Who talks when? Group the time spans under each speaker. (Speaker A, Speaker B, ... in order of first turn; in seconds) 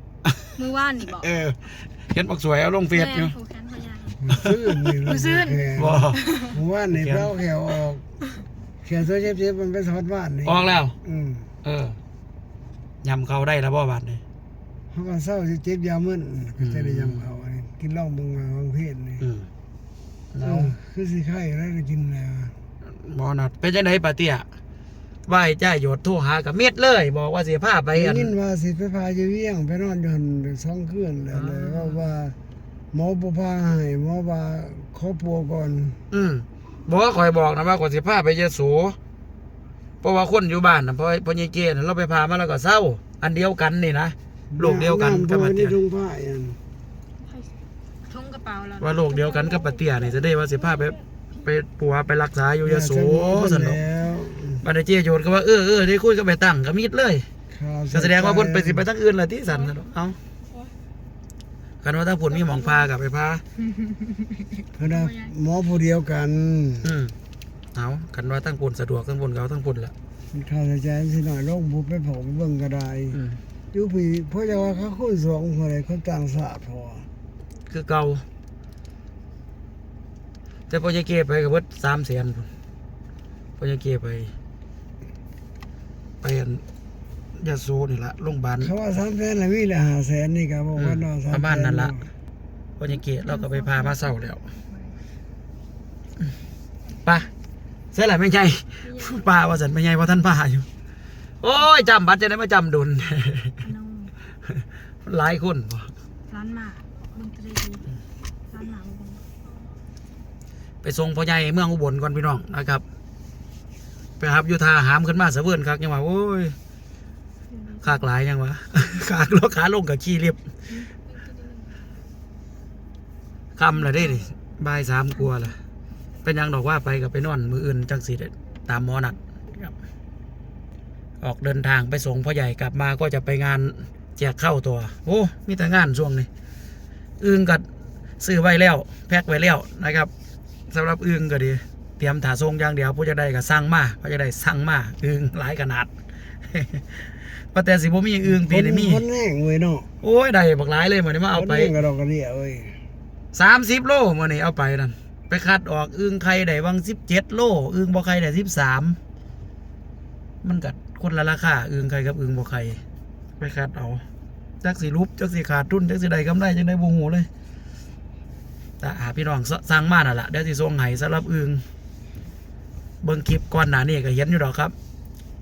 Speaker A: 0.6-1.3, 2.9-4.2, 5.0-6.5, 48.1-49.9, 62.4-62.8, 64.6-65.3, 93.3-95.0, 98.8-99.3, 101.6-101.9, 103.6-104.1, 106.3-107.9, 108.5-109.3, 117.5-118.1, 120.7-121.7, 123.8-124.3
Speaker B: 1.1-3.3, 5.8-6.2, 6.9-7.3, 10.4-10.9, 11.6-12.0, 13.0-14.2, 16.6-17.3, 19.2-19.5, 20.3-20.7, 22.9-24.4, 25.3-28.3, 31.3-32.0, 36.1-39.0, 40.0-45.8, 48.8-53.8, 54.6-57.2, 57.9-60.2, 61.8-63.4, 66.8-67.1, 67.7-69.9, 73.1-73.4, 77.7-78.2, 80.7-82.5, 83.6-84.3, 86.2-86.6, 87.3-88.7, 90.8-92.0, 92.8-94.5, 97.9-100.7, 101.4-103.6, 105.0-105.9, 110.8-112.8, 114.2-116.5, 117.8-120.5, 123.5-125.6, 126.2-129.7, 131.2-136.3, 137.2-137.7, 138.2-140.1, 140.7-145.9, 146.5-149.1, 150.0-151.7, 153.3-159.0, 160.4-162.8, 163.4-164.0, 164.6-167.3, 168.8-171.6, 173.0-174.7
Speaker C: 4.2-8.0, 8.8-11.5, 14.9-19.2, 20.4-22.5, 27.9-32.4, 32.9-36.0, 44.5-46.6, 52.6-54.6, 57.5-58.8, 64.8-66.9, 70.3-73.2, 73.7-77.1, 88.6-92.1, 148.2-149.9, 151.3-152.8